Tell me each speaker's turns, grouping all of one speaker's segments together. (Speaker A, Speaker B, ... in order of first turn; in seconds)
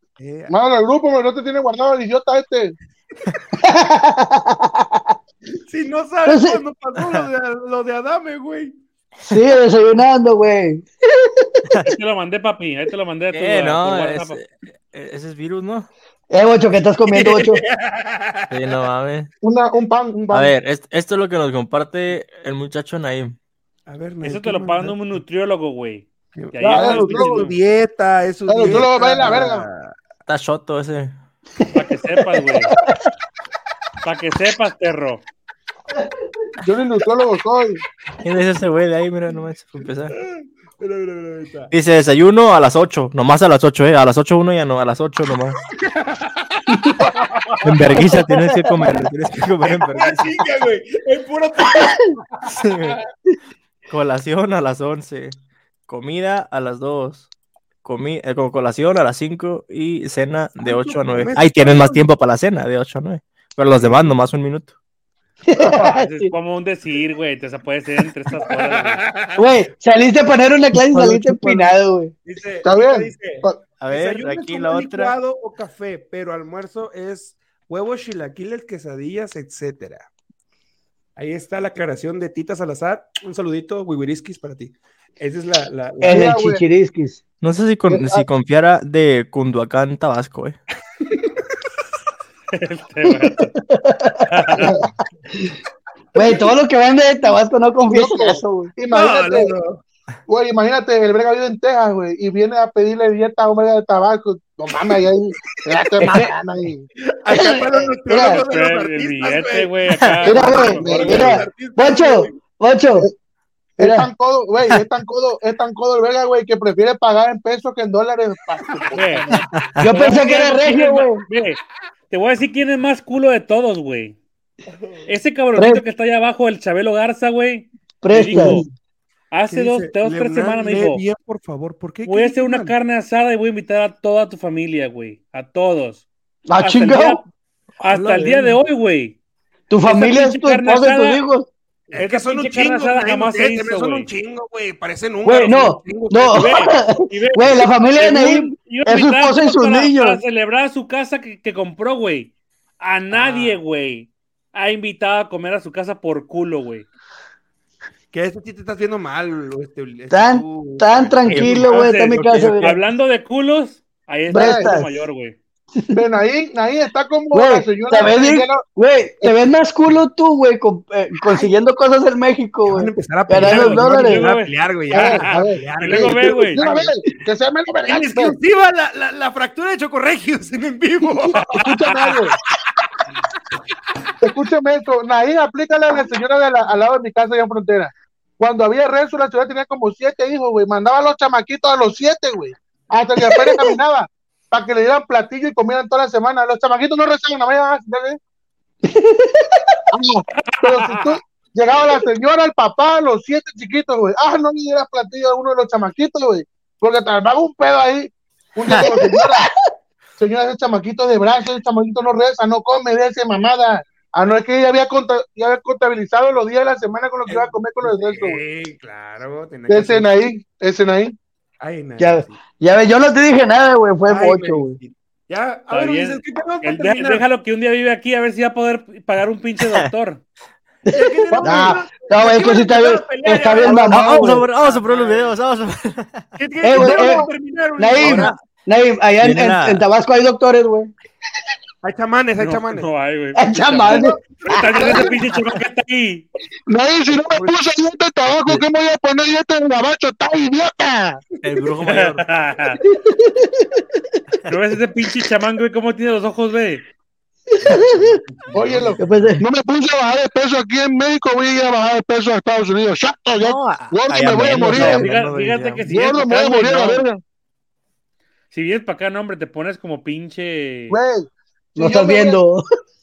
Speaker A: 0.2-0.5, 5.7-8.8, 17.1-18.8, 23.9-25.0, 26.3-29.9, 40.1-41.7, 45.8-46.6, 49.6-53.0, 60.6-62.0, 63.8-64.1, 68.5-69.4, 72.2-80.1, 81.2-86.2, 98.9-99.8, 107.2-112.4, 129.5-132.7, 137.9-138.6, 141.9-146.6, 153.1-153.6, 158.1-161.6, 172.7-176.9, 177.8-181.4, 217.3-220.1, 221.6-222.4, 224.1-227.2, 230.9-235.3, 236.4-238.3, 241.8-242.9, 243.8-245.3, 257.6-259.3
Speaker B: 0.5-2.8, 19.4-20.5, 26.6-27.4, 28.5-29.6, 36.6-37.8, 65.6-65.9, 72.6-73.6, 86.0-86.6, 87.9-88.2, 97.9-99.5, 100.3-106.9, 110.8-111.3, 113.8-119.4, 164.3-164.7, 165.9-168.6, 174.9-178.3, 181.5-182.4, 184.2-198.2, 199.9-209.5, 210.2-218.4, 219.7-221.2, 231.3-231.8, 236.8-237.3, 246.7-251.2, 258.5-265.1, 265.9-267.2, 270.9-272.4
Speaker C: 3.6-4.8, 6.2-6.6, 9.3-11.5, 16.3-17.6, 32.7-32.9, 48.0-48.6, 65.5-66.3, 69.3-72.1, 86.0-87.2, 93.6-94.7, 96.1-98.7, 106.0-106.3, 107.3-108.4, 110.2-113.1, 113.8-114.1, 119.8-121.2, 125.5-125.8, 128.0-128.7, 136.5-137.2, 139.7-141.5, 145.2-150.2, 160.1-162.8, 164.3-164.9, 167.3-174.3, 193.3-193.7, 198.8-199.8, 208.7-209.5, 222.0-224.8, 230.9-234.4, 236.6-240.9, 243.4-244.2, 252.9-253.8, 257.7-258.1, 259.0-259.4, 271.8-272.6
Speaker D: 11.8-14.4, 24.2-27.6, 31.7-32.7, 34.0-35.2, 65.8-69.0, 92.5-93.5, 94.3-94.7, 108.5-111.2, 118.9-124.2, 125.0-128.6, 129.3-131.0, 132.1-136.1, 136.6-137.2, 137.8-139.2, 139.8-141.2, 141.9-144.1, 146.3-156.9, 161.4-165.3, 173.4-176.6, 181.4-182.2, 200.4-201.2, 225.7-230.2, 242.4-246.2, 251.8-252.8, 254.5-256.8, 264.6-267.0, 268.5-271.0
Speaker E: 13.3-15.9, 18.5-19.3, 20.3-23.3, 30.2-31.1, 38.2-40.1, 41.7-45.6, 47.6-50.3, 52.5-53.0, 53.9-55.4, 55.9-57.2, 57.8-64.7, 70.9-71.5, 73.8-75.1, 87.4-90.6, 119.5-119.8, 161.2-162.8, 233.7-236.3, 238.0-238.4, 239.2-239.8, 251.4-252.2, 263.4-265.9